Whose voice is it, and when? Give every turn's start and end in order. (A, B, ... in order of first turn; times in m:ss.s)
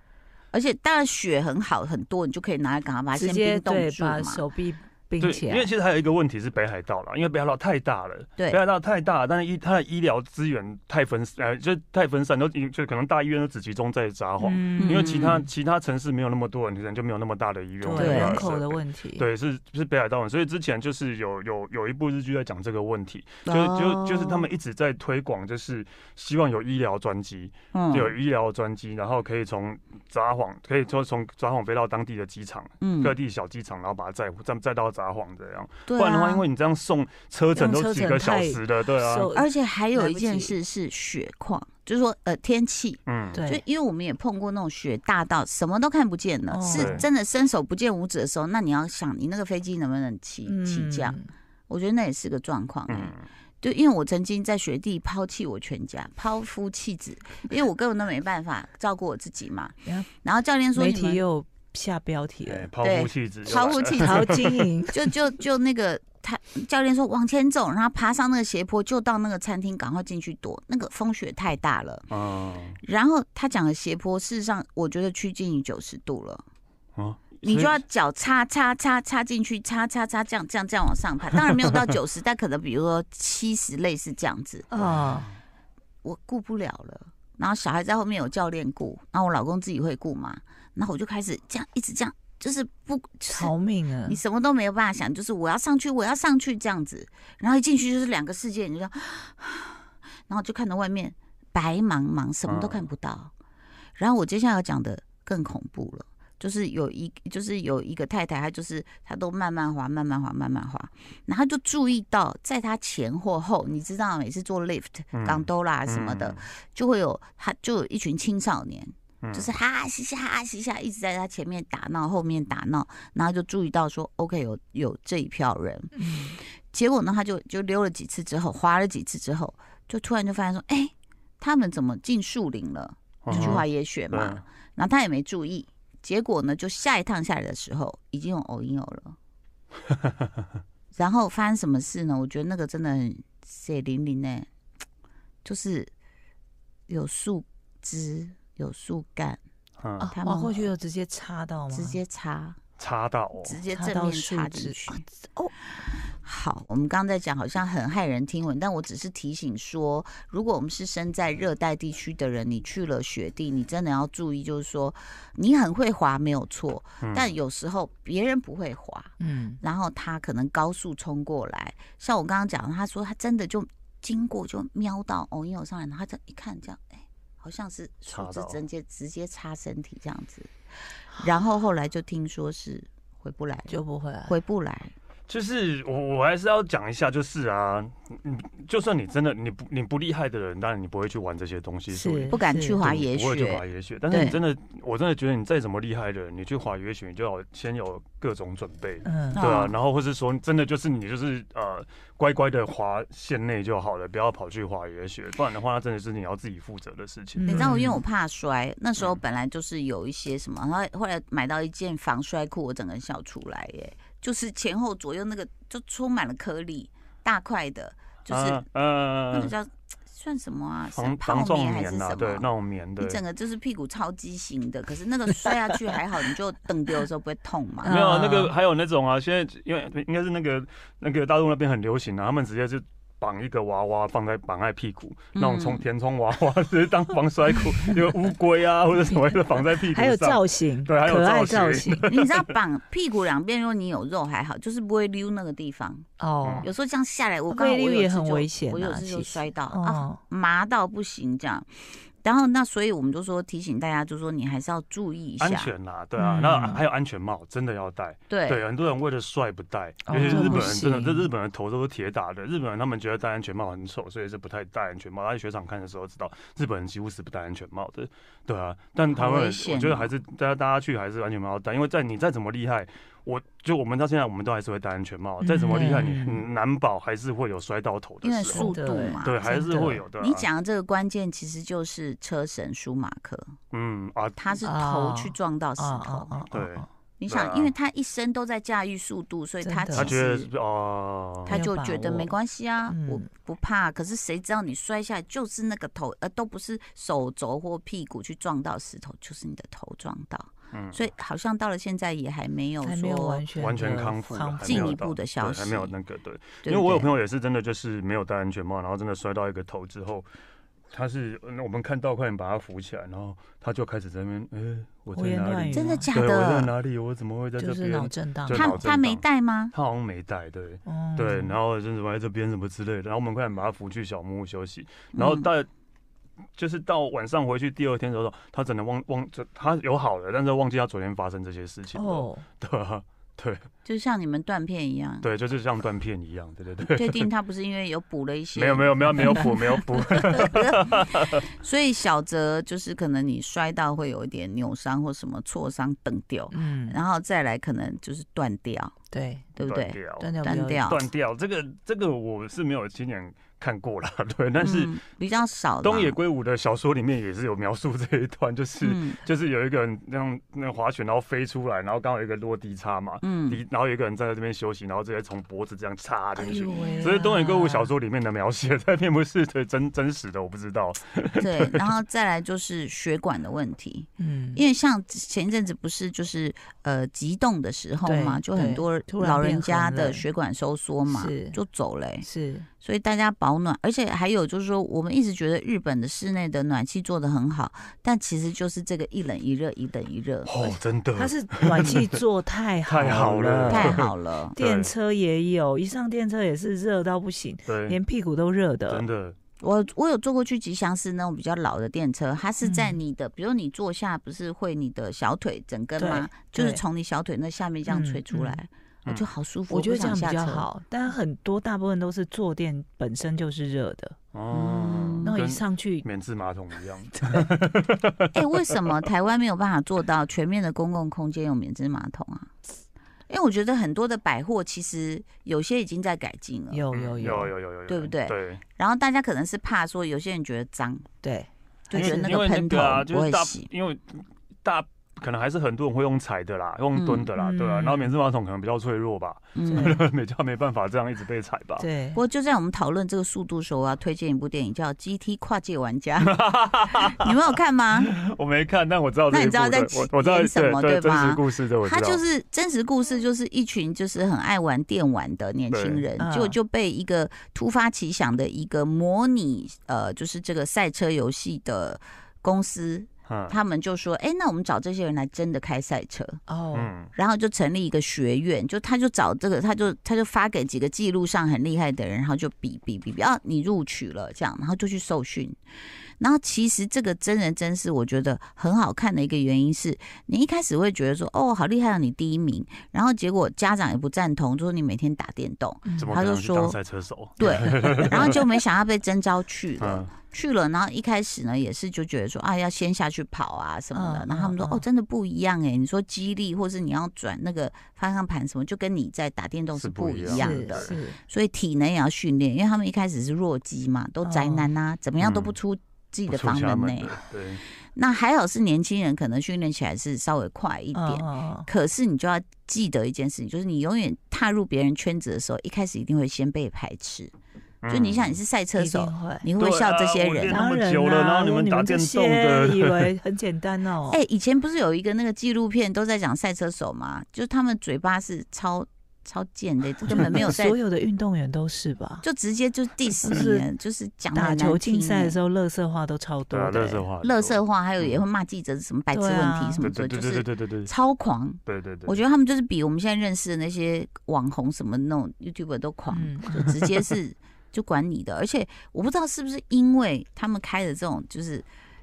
0:00.5-0:04.4 A
0:03.1-0:05.7 B
0:05.2-0:39.3 C
0:14.4-0:15.4 B
0:14.8-0:15.4 A
0:17.8-0:19.3 B
0:18.0-0:18.4 A
0:23.4-0:24.4 A
0:27.7-0:28.1 A
0:32.8-0:33.1 A
0:35.9-0:36.4 A
0:37.6-0:40.5 B
0:39.3-0:51.2 A
0:43.1-0:43.4 C
0:43.3-0:43.6 B
0:46.5-0:47.1 B
0:46.7-0:47.0 C
0:50.4-0:51.3 B
0:51.7-1:01.2 A
0:52.9-0:53.3 C
1:00.7-1:02.7 B
1:02.4-1:04.6 C
1:02.8-1:12.1 A
1:04.0-1:05.1 B
1:12.1-1:12.8 C
1:12.8-1:16.4 A
1:17.0-1:17.8 C
1:17.4-1:24.7 A
1:24.7-1:25.3 B
1:24.8-1:25.4 C
1:26.0-1:33.5 A
1:33.3-1:34.2 B
1:34.0-1:43.3 A
1:42.4-1:42.8 C
1:44.0-2:19.2 A
1:55.1-1:56.4 C
1:59.2-1:59.5 C
2:05.9-2:06.4 B
2:13.2-2:14.4 C
2:13.3-2:13.6 B
2:19.9-2:20.5 C
2:20.9-2:24.5 A
2:25.4-2:25.9 A
2:26.9-2:29.4 A
2:29.8-2:30.1 C
2:30.0-2:32.0 B
2:30.1-2:30.6 A
2:31.7-2:32.6 A
2:32.8-2:33.6 C
2:33.4-2:35.0 A
2:33.7-2:35.5 B
2:35.8-3:00.5 A
2:47.0-2:47.3 C
2:49.2-2:49.6 B
2:58.1-2:58.6 C
3:01.1-3:04.9 A
3:03.7-3:04.3 B
3:05.3-3:27.8 C
3:11.9-3:12.8 B
3:12.3-3:14.4 A
3:19.0-3:19.4 B
3:19.3-3:19.7 A
3:27.4-3:28.0 B
3:27.5-3:38.6 A
3:38.3-3:39.5 C
3:39.3-3:42.5 A
3:40.9-3:43.2 C
3:43.0-3:47.9 A
3:47.8-3:48.5 B
3:47.8-4:02.6 C
3:55.3-3:55.8 A
3:59.8-4:02.1 B
4:02.0-4:06.1 A
4:06.2-4:06.7 B
4:06.4-4:06.7 C
4:06.6-4:11.7 A
4:07.5-4:10.2 B
4:12.2-4:15.7 A
4:15.4-4:40.4 C
4:16.2-4:16.8 B
4:18.3-4:18.6 A
4:20.1-4:21.3 B
4:20.2-4:20.8 A
4:29.1-4:30.1 A
4:35.4-4:36.4 B
4:38.2-4:43.6 A
4:38.5-4:40.0 B
4:43.7-4:44.6 C
4:44.4-4:46.5 A
4:44.6-4:46.9 B
4:46.5-4:47.7 C
4:47.2-4:50.5 A
4:49.6-4:50.1 B
4:49.9-4:51.6 C
4:51.4-5:03.4 A
4:51.5-4:52.3 B
4:52.9-4:53.2 B
5:00.7-5:01.0 C
5:02.8-5:05.0 B
5:03.6-5:10.3 C
5:04.6-5:05.9 A
5:06.6-5:07.1 A
5:10.9-5:25.7 C
5:15.1-5:16.1 B
5:15.7-5:16.7 A
5:17.6-5:18.8 B
5:18.5-5:19.7 A
5:20.8-5:21.6 B
5:25.1-5:25.5 A
5:26.6-5:33.7 C
5:31.9-5:32.4 B
5:33.8-5:35.3 A
5:35.2-5:37.3 C
5:36.9-5:48.9 A
5:38.5-5:41.4 C
5:46.5-5:47.0 B
5:49.1-5:49.5 B
5:49.6-5:51.0 A
5:49.6-5:54.9 C
5:50.2-5:50.9 B
5:54.6-5:56.2 A
5:55.8-6:11.9 C
5:58.8-5:59.2 A
6:03.2-6:03.6 A
6:06.4-6:07.9 B
6:11.4-6:22.3 A
6:14.2-6:14.6 B
6:18.0-6:20.2 B
6:21.1-6:21.6 B
6:22.2-6:22.7 B
6:22.8-6:30.7 A
6:30.4-6:32.2 C
6:31.2-6:39.0 B
6:32.8-6:34.9 C
6:33.7-6:34.6 A
6:37.7-6:38.0 C
6:38.9-6:39.4 C
6:39.6-6:50.6 A
6:42.6-6:43.0 B
6:46.0-6:46.8 B
6:47.9-6:48.6 B
6:49.7-6:54.2 B
6:54.3-6:58.7 C
6:54.5-6:55.3 A
6:55.2-6:56.0 B
6:58.3-7:02.5 A
7:03.3-7:06.8 A
7:06.7-7:07.5 B
7:06.9-7:08.6 C
7:07.9-7:11.1 A
7:11.2-7:12.4 B
7:11.9-7:13.7 A
7:11.9-7:21.9 C
7:16.9-7:17.3 A
7:17.4-7:18.1 B
7:19.5-7:20.0 A
7:19.7-7:20.0 B
7:21.8-7:22.2 B
7:22.1-7:26.4 A
7:26.2-7:27.3 C
7:26.9-7:28.1 A
7:28.0-7:32.2 C
7:29.3-7:46.4 A
7:35.7-7:36.0 C
7:36.2-7:36.6 B
7:43.3-7:43.6 C
7:46.5-7:46.9 B
7:46.7-7:47.1 C
7:47.1-7:55.6 A
7:56.2-8:06.8 A
8:05.8-8:06.1 B
8:06.0-8:08.4 C
8:07.4-8:27.2 A
8:09.8-8:10.1 C
8:13.9-8:14.8 B
8:19.7-8:20.9 C
8:20.3-8:21.2 B
8:24.2-8:24.7 B
8:25.2-8:25.6 C
8:26.3-8:27.6 C
8:27.9-8:37.3 A
8:30.9-8:31.7 B
8:37.8-8:38.4 C
8:37.9-8:40.6 A
8:38.8-8:39.4 B
8:39.6-8:43.1 C
8:40.5-8:44.2 B
8:44.1-8:50.8 A
8:50.1-8:52.2 B
8:52.2-8:55.4 A
8:53.2-8:53.7 B
8:54.3-8:57.0 B
8:56.5-8:58.2 C
8:57.2-9:11.6 A
8:59.1-8:59.9 B
8:59.8-9:00.9 C
9:01.6-9:02.2 C
9:06.1-9:06.8 B